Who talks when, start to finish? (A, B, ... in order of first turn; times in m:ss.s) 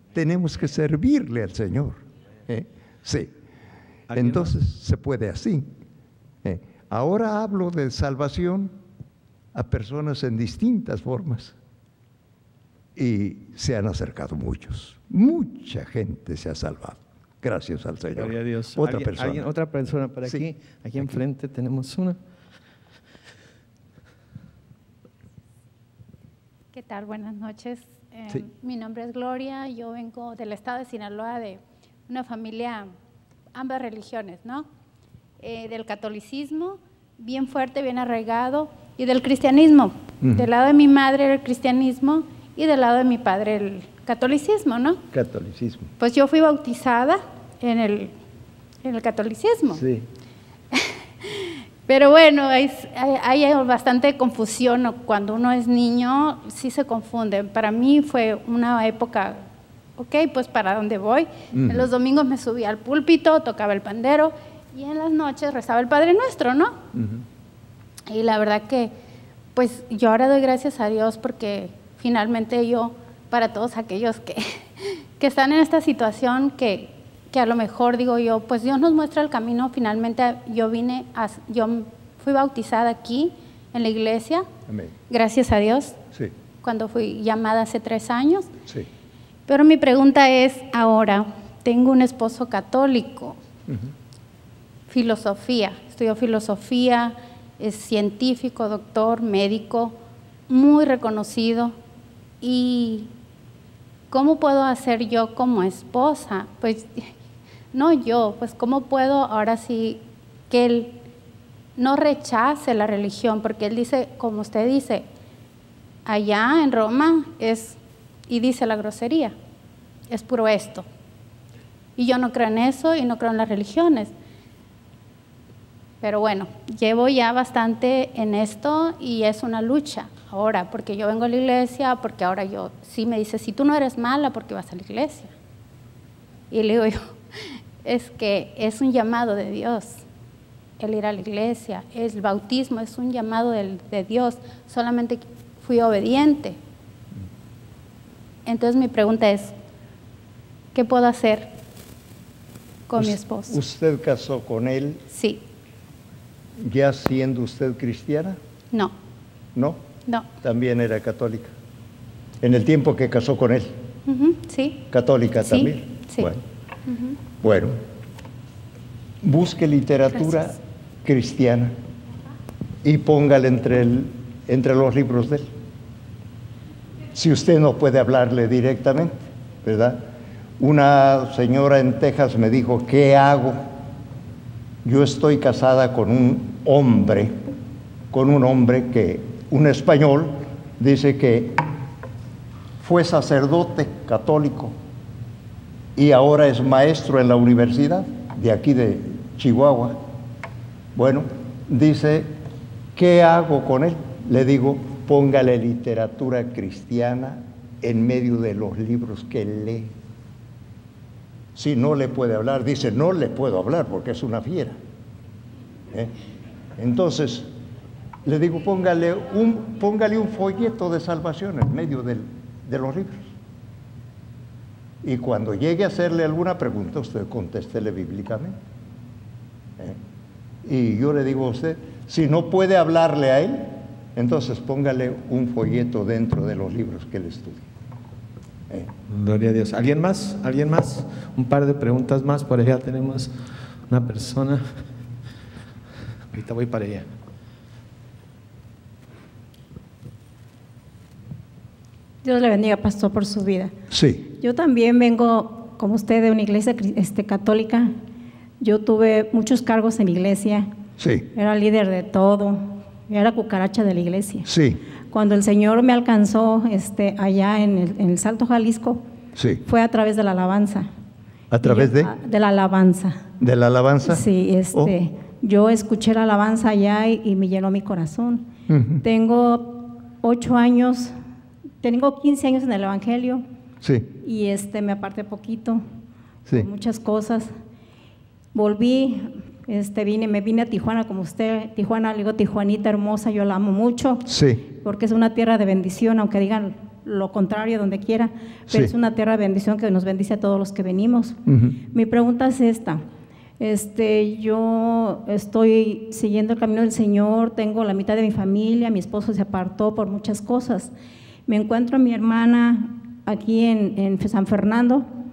0:00.1-0:03.3 A
0:04.1-0:04.5 B
0:04.2-0:05.7 A
0:06.4-0:08.8 A
0:09.5-0:11.6 A
0:13.0-0:19.5 A
0:18.2-0:22.2 B
0:26.7-0:32.9 C
0:33.5-0:34.7 C
0:35.4-0:45.0 C
0:40.2-0:40.5 A
0:45.1-0:45.9 A
0:46.0-0:48.1 C
0:48.8-0:49.8 C
0:49.7-0:50.1 A
0:50.7-0:59.5 C
1:00.0-1:06.8 C
1:01.5-1:01.9 A
1:06.9-1:07.2 A
1:08.1-1:08.9 C
1:09.6-1:24.5 C
1:24.7-1:24.9 A
1:25.1-1:26.0 C
1:26.6-1:28.5 C
1:29.5-1:33.4 C
1:33.7-1:33.9 A
1:34.9-1:40.0 C
1:40.5-1:41.8 C
1:42.4-1:43.1 C
1:44.1-1:47.1 C
1:47.7-1:51.0 C
1:51.8-1:55.1 C
1:56.1-1:59.3 C
2:00.1-2:00.8 C
2:02.0-2:04.1 C
2:06.0-2:15.3 C
2:16.5-2:20.0 C
2:20.8-2:26.6 C
2:28.5-2:29.5 C
2:30.8-2:31.5 C
2:32.9-2:33.6 C
2:33.0-2:35.0 A
2:35.1-2:35.4 C
2:36.6-2:38.4 A
2:39.6-2:39.8 A
2:40.4-2:41.5 A
2:42.4-2:43.8 A
2:44.1-2:44.9 C
2:44.9-2:46.4 A
2:45.4-2:46.3 C
2:46.9-2:47.2 C
2:47.4-2:47.8 A
2:49.2-2:51.7 A
2:52.8-2:55.5 A
2:57.1-3:00.1 A
3:00.6-3:03.6 A
3:04.8-3:07.3 A
3:08.1-3:11.6 A
3:12.8-3:14.8 A
3:16.0-3:20.0 A
3:21.0-3:22.3 A
3:23.0-3:29.9 A
3:31.6-3:34.8 A
3:36.8-3:37.5 A
3:38.2-3:43.3 A
3:45.0-3:48.6 A
3:50.6-3:57.7 A
3:59.1-4:03.3 B
4:03.9-4:04.8 B
4:06.3-4:07.2 B
4:12.2-4:13.7 D
4:13.9-4:14.2 A
4:14.3-4:17.9 D
4:18.6-4:20.7 D
4:21.0-4:21.3 A
4:21.3-4:24.5 D
4:24.4-4:24.8 A
4:25.1-4:29.0 D
4:29.4-4:29.6 A
4:29.6-4:30.9 D
4:31.5-4:32.1 A
4:31.6-4:33.2 D
4:33.4-4:34.9 A
4:34.0-4:38.5 D
4:38.7-4:39.0 A
4:39.0-4:41.1 D
4:41.8-4:43.4 D
4:43.8-4:44.1 A
4:44.2-4:45.8 D
4:46.5-4:47.5 D
4:48.5-5:01.4 D
4:54.3-4:54.6 A
5:01.5-5:01.8 A
5:01.9-5:03.0 D
5:03.6-5:10.9 D
5:11.5-5:15.1 D